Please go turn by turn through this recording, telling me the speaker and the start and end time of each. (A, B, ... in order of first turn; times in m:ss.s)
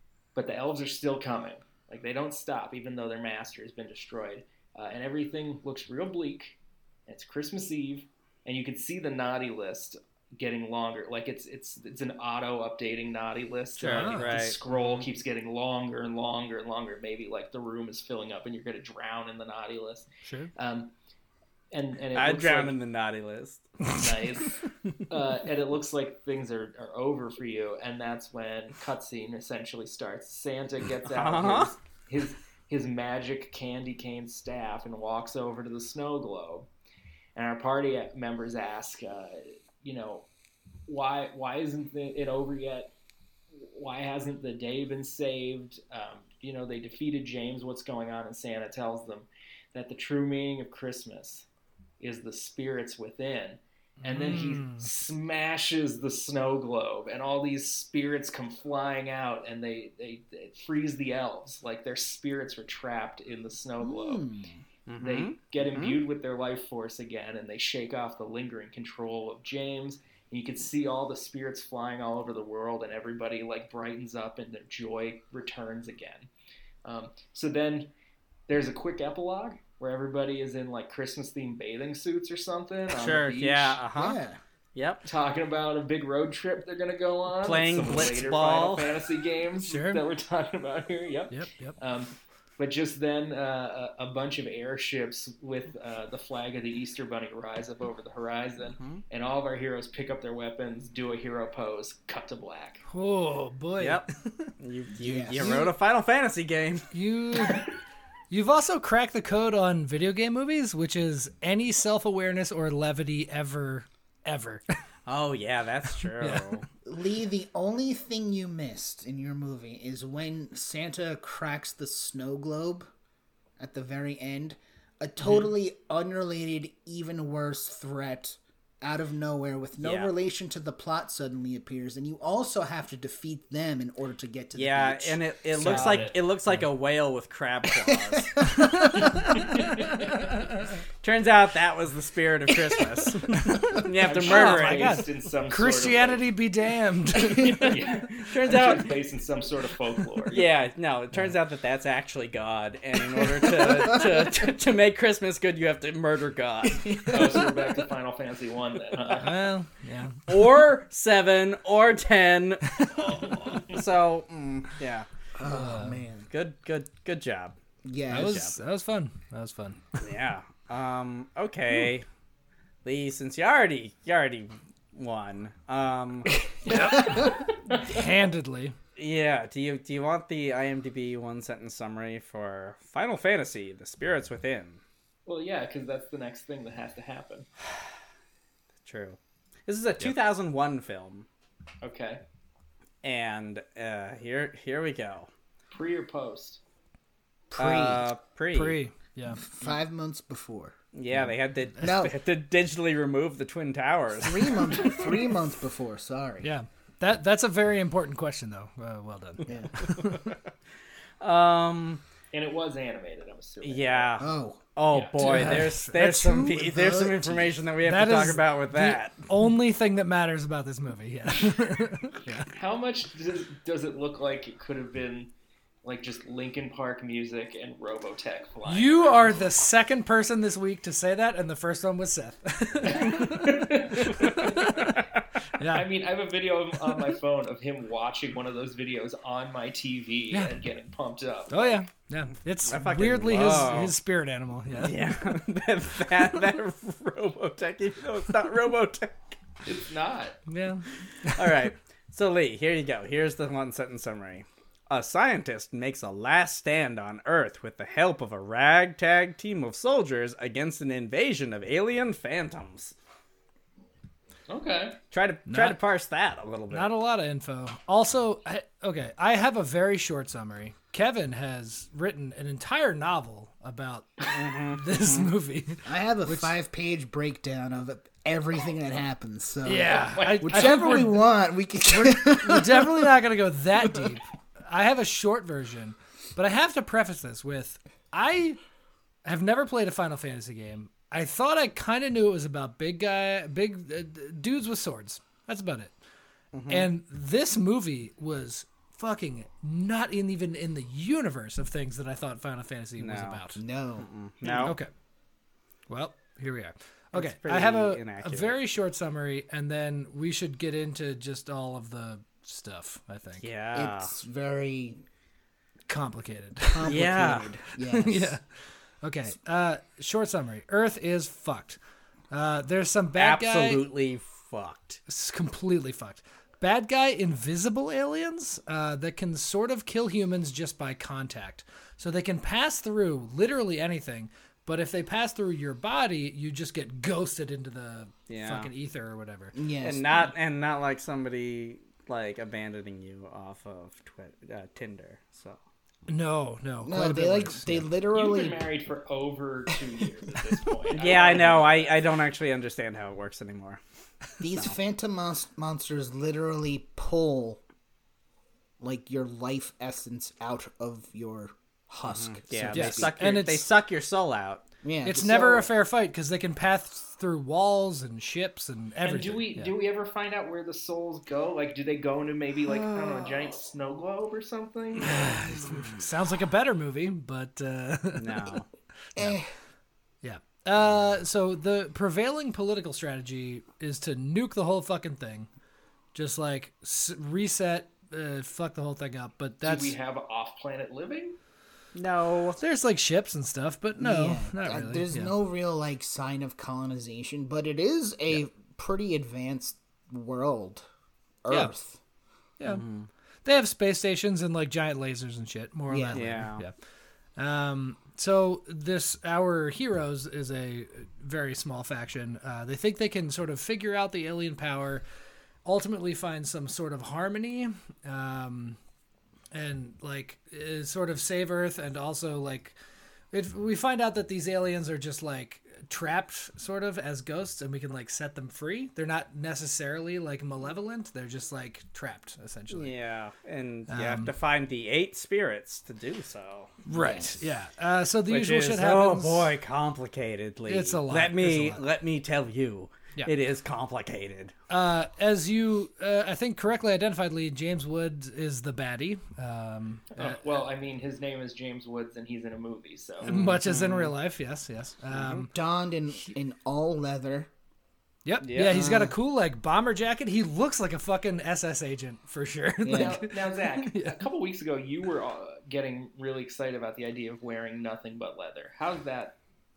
0:00.3-0:20.9 A
0:13.8-0:14.5 B
0:13.8-0:15.1 C
0:20.2-0:20.5 B
0:21.7-0:22.8 A
0:22.1-0:23.6 C
0:24.0-0:24.6 A
0:25.1-0:36.7 A
0:31.1-0:31.7 C
0:37.4-0:40.3 A
0:40.9-0:42.9 A
0:43.5-0:51.5 A
0:52.0-1:04.2 A
0:54.0-0:54.9 B
1:03.8-1:04.6 D
1:04.9-1:06.0 C
1:05.0-1:16.3 A
1:16.8-1:17.9 A
1:18.5-1:23.8 A
1:22.9-1:24.2 C
1:24.0-1:24.4 D
1:24.7-1:25.0 C
1:25.0-1:42.8 A
1:27.4-1:28.9 C
1:29.6-1:30.0 B
1:31.3-1:31.8 B
1:38.8-1:39.0 C
1:42.9-1:44.1 B
1:43.8-1:44.1 C
1:44.6-1:46.9 C
1:45.0-1:45.7 D
1:46.9-1:47.7 B
1:48.3-1:54.6 B
1:55.0-1:56.6 C
1:56.2-1:56.6 B
1:56.8-2:02.9 D
2:03.6-2:15.2 D
2:05.2-2:05.5 C
2:09.8-2:10.1 C
2:14.5-2:18.5 C
2:15.6-2:16.1 B
2:15.6-2:16.2 A
2:17.9-2:19.3 D
2:18.6-2:20.6 B
2:19.3-2:20.2 A
2:21.0-2:25.0 C
2:23.5-2:27.8 B
2:23.9-2:26.2 A
2:27.6-2:30.4 A
2:28.1-2:28.9 C
2:30.3-2:37.4 C
2:36.6-2:37.5 D
2:37.1-2:39.3 A
2:39.2-2:40.2 B
2:40.3-2:45.1 C
2:43.1-2:43.8 A
2:45.4-2:46.3 D
2:45.4-2:46.0 B
2:46.3-2:47.6 C
2:47.8-2:48.4 D
2:48.1-2:50.0 B
2:48.1-2:48.6 C
2:50.0-2:52.0 C
2:52.8-2:56.4 C
2:56.6-2:58.8 B
2:56.9-2:57.4 D
2:57.7-2:58.0 A
2:59.0-3:04.8 C
3:05.2-3:07.5 A
3:08.8-3:11.3 C
3:11.8-3:12.2 A
3:13.0-3:15.3 C
3:15.7-3:16.6 A
3:17.5-3:18.1 D
3:17.5-3:18.8 C
3:18.5-3:19.4 B
3:19.3-3:20.8 D
3:20.9-3:25.2 C
3:21.8-3:22.1 D
3:24.2-3:26.5 D
3:26.4-3:30.3 B
3:29.5-3:29.7 D
3:30.0-3:30.4 C
3:31.2-3:32.0 C
3:32.3-3:34.1 A
3:33.6-3:39.2 C
3:34.2-3:34.6 D
3:34.9-3:35.2 A
3:35.2-3:36.5 B
3:35.3-3:37.6 D
3:37.8-3:42.5 B
3:42.5-3:45.3 A
3:45.8-3:49.3 A
3:48.6-3:55.0 B
3:52.8-3:54.7 A
3:54.7-3:55.2 C
3:55.6-3:55.9 B
3:55.7-4:01.8 A
4:01.5-4:04.9 B
4:02.6-4:03.9 C
4:04.7-4:09.4 C
4:09.6-4:10.4 A
4:10.5-4:11.7 B
4:11.2-4:22.9 C
4:24.5-4:25.0 A
4:25.1-4:26.9 C
4:25.5-4:25.8 B
4:26.7-4:36.5 B
4:34.3-4:35.3 C
4:35.8-4:43.2 D
4:39.6-4:41.2 B
4:39.9-4:40.9 A
4:41.9-4:48.6 B
4:43.8-4:44.1 D
4:49.2-4:55.9 B
4:56.5-4:56.9 C
4:56.7-5:03.6 B
5:03.0-5:03.4 C
5:03.5-5:04.1 D
5:04.0-5:04.8 C
5:04.5-5:04.9 B
5:05.9-5:13.4 B
5:07.1-5:08.6 C
5:13.4-5:14.1 C
5:13.7-5:15.0 D
5:15.9-5:16.9 B
5:16.6-5:18.4 D
5:16.8-5:17.5 C
5:18.0-5:18.4 B
5:19.0-5:21.8 B
5:22.3-5:23.8 B
5:23.2-5:25.0 C
5:25.1-5:39.5 B
5:38.3-5:38.7 C
5:39.5-5:40.0 D
5:39.8-5:45.6 C
5:46.1-5:47.9 B
5:46.8-5:48.6 D
5:48.1-5:52.0 A
5:50.9-5:53.8 C
5:54.4-5:57.6 D
5:58.8-6:03.1 D
6:02.0-6:04.6 C
6:02.7-6:03.6 B
6:04.8-6:05.7 D
6:05.0-6:09.7 B
6:05.3-6:05.5 A
6:09.0-6:15.4 A
6:15.0-6:18.5 B
6:15.6-6:16.0 C
6:18.2-6:18.7 C
6:19.2-6:19.5 D
6:20.2-6:25.5 B
6:26.1-6:30.0 B
6:29.6-6:31.4 A
6:31.9-6:32.6 C
6:32.6-6:35.3 B
6:34.0-6:40.8 D
6:41.4-6:42.0 D
6:42.6-6:43.1 C
6:43.4-6:46.7 B
6:45.9-6:46.5 D
6:46.1-6:46.6 C
6:47.4-6:55.0 B
6:55.6-6:58.8 B
6:59.5-7:02.7 B
7:03.3-7:12.9 B
7:12.7-7:16.7 C
7:13.9-7:14.3 B
7:16.8-7:19.5 B
7:16.9-7:17.4 D
7:18.3-7:24.6 C
7:20.7-7:21.8 B
7:24.7-7:30.4 B
7:30.1-7:33.3 A
7:33.2-7:34.1 C
7:33.2-7:35.5 B
7:35.1-7:35.5 C
7:35.5-7:37.5 D
7:38.2-7:44.2 B
7:38.4-7:39.1 C
7:42.8-7:43.2 D
7:42.9-7:49.4 A